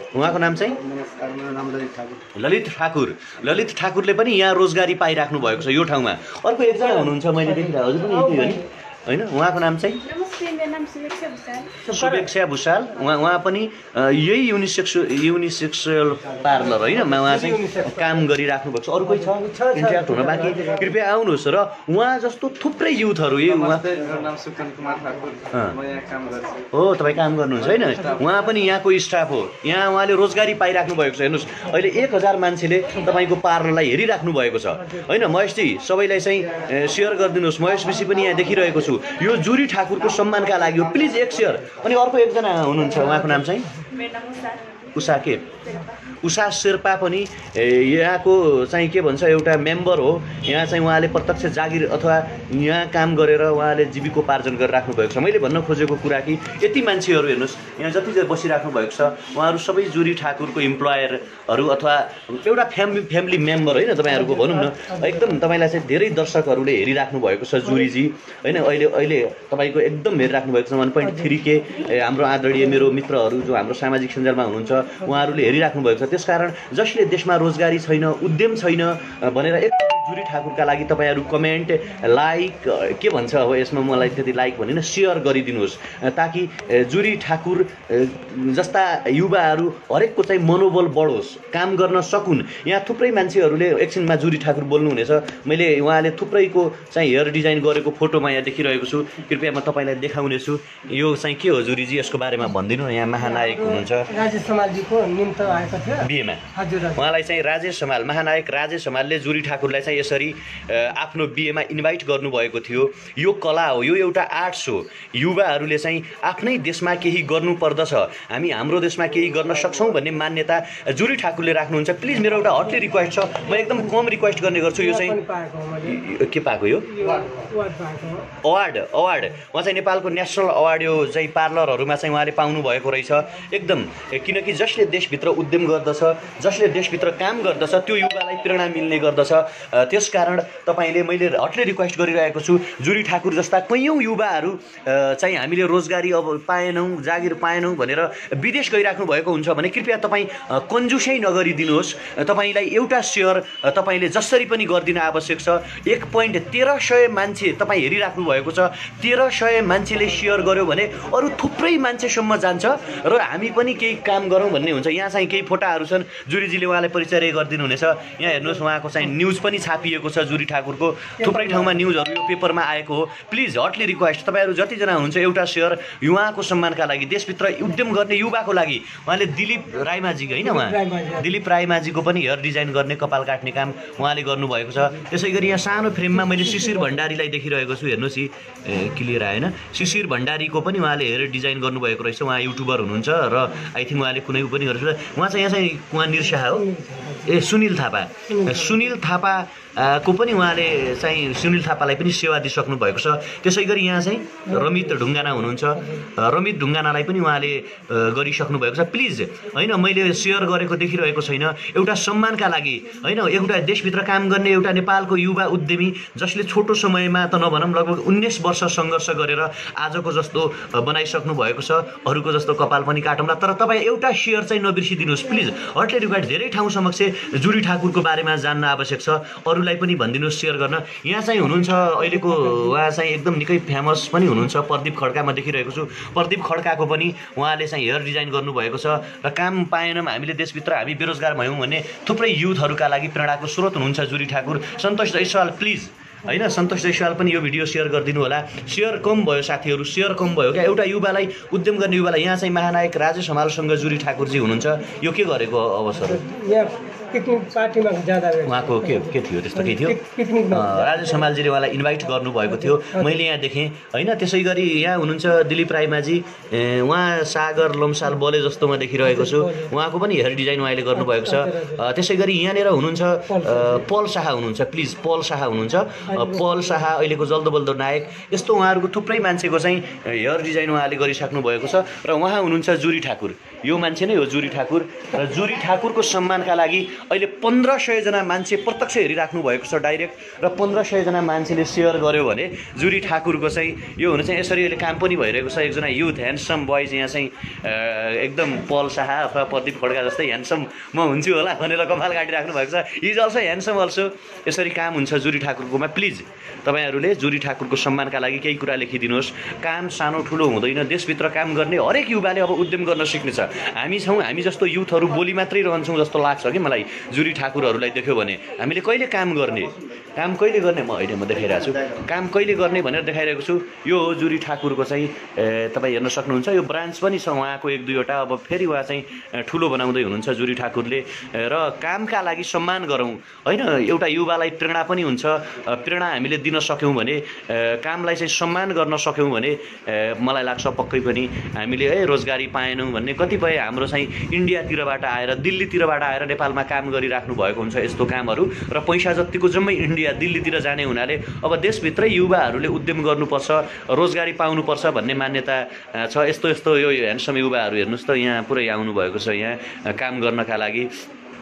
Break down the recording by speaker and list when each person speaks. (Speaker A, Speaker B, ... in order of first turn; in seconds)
Speaker A: 0.1-0.8, 2.4-10.0, 11.9-23.8, 25.5-25.8, 26.7-43.7, 44.9-45.6, 46.2-104.1, 106.0-125.2, 125.8-126.9, 128.4-196.7, 197.2-256.2, 258.4-260.0, 260.5-360.9
Speaker B: 0.8-2.3, 23.4-26.7, 27.6-28.3
Speaker C: 6.8-8.7, 11.9-12.3, 16.8-18.3, 19.0-20.9, 28.0-28.3, 64.2-65.3, 71.0-71.3, 103.2-107.0, 124.8-126.0, 126.9-128.3, 171.2-171.7, 180.4-181.3, 196.5-197.3, 198.3-198.6, 204.5-204.9, 205.8-206.1, 256.0-261.3, 262.4-263.1, 269.0-269.7, 271.0-271.8, 273.3-273.8, 276.1-276.6
Speaker D: 10.0-11.8, 43.9-44.9